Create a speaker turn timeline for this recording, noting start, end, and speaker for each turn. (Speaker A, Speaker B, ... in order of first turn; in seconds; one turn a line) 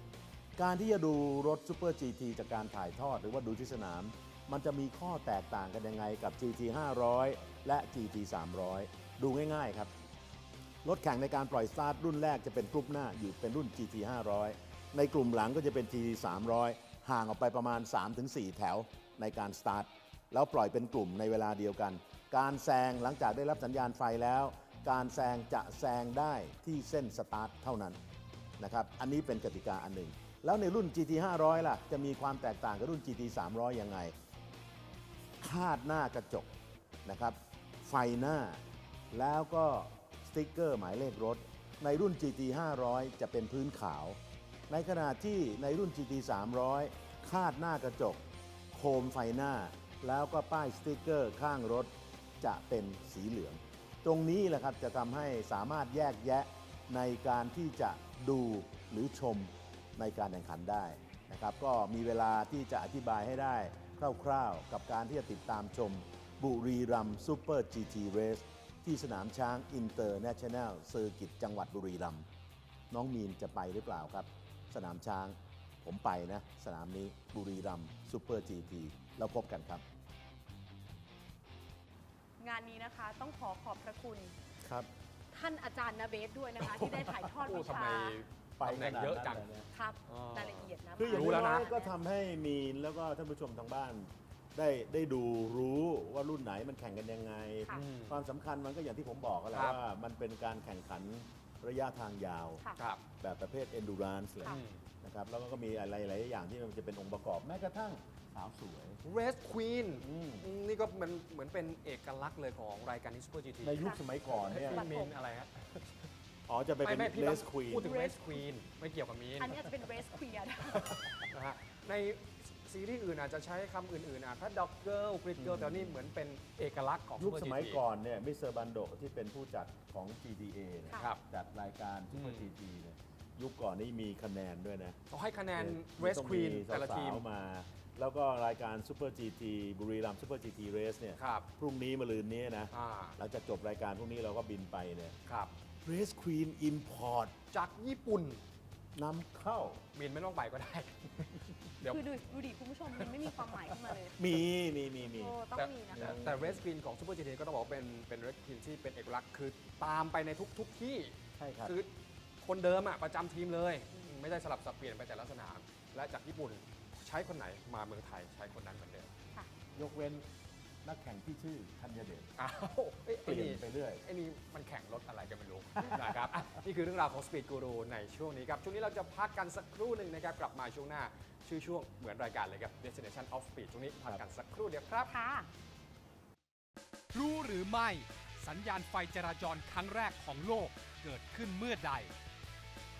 Speaker A: 0.6-9.9
Speaker A: 10.8-28.0
Speaker A: 28.6-34.1
Speaker A: 35.4-36.5
Speaker A: 37.0-38.6
Speaker A: 39.1-44.2
Speaker A: 44.7-48.2
Speaker A: 48.7-72.2
Speaker A: 72.9-79.8
Speaker B: 82.4-84.3
Speaker A: 84.6-84.9
Speaker B: 85.3-88.2
Speaker C: 87.3-89.5
Speaker A: 88.6-89.7
Speaker B: 89.7-91.9
Speaker C: 90.1-91.7
Speaker A: 91.0-109.0
Speaker C: 97.8-98.2
Speaker C: 99.5-99.8
Speaker C: 104.5-104.8
Speaker C: 109.0-115.9
Speaker A: 110.0-110.5
Speaker A: 113.6-114.9
Speaker B: 114.6-115.1
Speaker A: 116.5-118.0
Speaker C: 116.8-119.5
Speaker B: 117.8-118.4
Speaker B: 119.4-121.1
Speaker C: 120.8-127.8
Speaker A: 125.4-126.1
Speaker A: 127.2-135.0
Speaker C: 132.1-132.5
Speaker C: 135.1-137.2
Speaker A: 135.6-145.2
Speaker C: 141.2-141.4
Speaker C: 142.7-143.2
Speaker C: 145.2-145.5
Speaker A: 145.8-147.3
Speaker C: 147.5-148.4
Speaker A: 148.9-149.8
Speaker C: 149.9-152.0
Speaker B: 151.9-154.2
Speaker C: 153.0-153.6
Speaker A: 154.1-155.4
Speaker B: 155.1-156.2
Speaker C: 155.6-161.9
Speaker A: 155.9-156.6
Speaker A: 161.4-161.8
Speaker C: 162.4-169.1
Speaker A: 169.7-170.2
Speaker A: 170.8-172.3
Speaker C: 172.4-185.1
Speaker A: 173.2-174.0
Speaker A: 175.8-176.2
Speaker B: 185.1-185.5
Speaker D: 187.1-192.1